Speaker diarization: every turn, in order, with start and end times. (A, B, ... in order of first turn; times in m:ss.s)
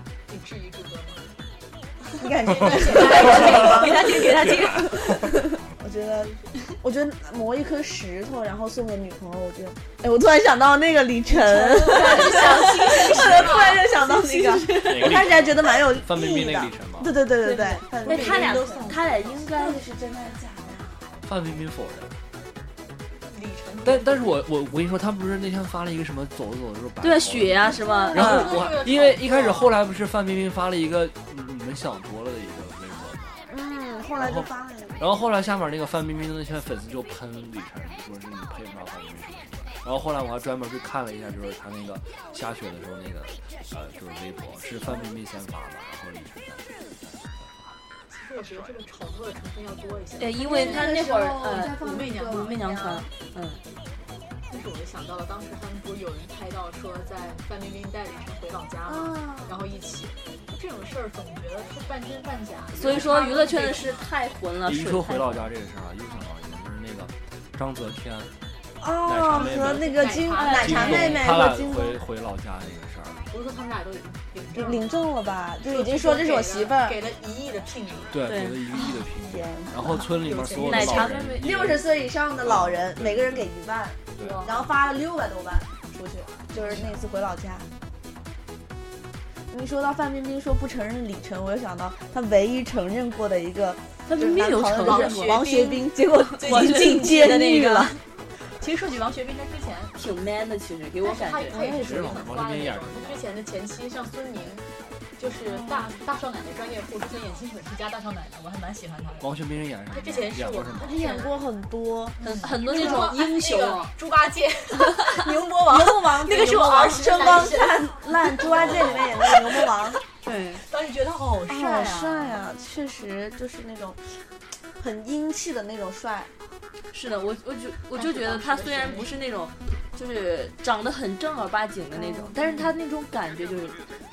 0:00.3-0:01.3 A
0:02.2-0:21.1 B
0:02.5-0:04.9 A
0:03.1-0:03.7 C
0:03.6-0:04.9 D
0:04.2-0:05.2 C
0:11.3-0:13.8 A
0:11.8-0:15.2 D
0:13.2-0:13.6 C
0:14.7-0:17.2 C
0:17.4-0:19.8 D
0:18.0-0:19.4 A
0:21.2-0:22.2 C
0:23.3-0:24.3 A
0:23.8-0:33.4 C
0:27.0-0:28.6 D
0:27.7-0:28.6 B
0:28.1-0:29.8 A
0:33.5-0:35.2 B
0:34.2-0:47.5 C
0:48.1-0:51.0 A
0:50.2-0:53.6 D
0:50.4-0:52.6 B
0:51.6-0:53.1 A
0:54.5-1:04.1 A
0:58.9-0:59.6 B
1:02.8-1:05.5 D
1:04.6-1:08.3 C
1:08.8-1:12.0 B
1:09.0-1:13.3 C
1:09.3-1:11.4 A
1:10.4-1:11.2 D
1:13.3-1:14.9 A
1:14.6-1:17.0 B
1:15.6-1:18.3 A
1:18.1-1:21.9 C
1:18.2-1:18.6 D
1:18.8-1:20.1 B
1:20.1-1:21.1 A
1:20.6-1:21.7 D
1:21.4-1:27.7 B
1:22.4-1:23.5 C
1:24.2-1:24.5 C
1:24.2-1:24.6 A
1:26.4-1:27.0 A
1:29.5-1:38.0 B
1:34.1-1:35.4 D
1:34.8-1:37.6 A
1:36.4-1:38.0 D
1:38.4-1:40.0 A
1:40.0-1:41.6 D
1:41.0-1:44.7 A
1:41.5-1:42.1 B
1:41.5-1:43.3 C
1:45.2-1:49.3 A
1:45.5-1:46.0 B
1:49.2-1:51.0 C
1:49.9-1:51.4 A
1:50.8-1:52.2 B
1:52.2-1:59.8 A
1:52.2-1:53.9 D
1:52.7-1:53.1 B
1:55.6-2:00.0 B
1:58.5-1:59.1 C
2:00.2-2:00.6 D
2:00.6-2:02.4 A
2:01.5-2:04.2 B
2:04.8-2:06.3 B
2:06.9-2:13.9 D
2:08.0-2:09.1 A
2:11.9-2:12.4 B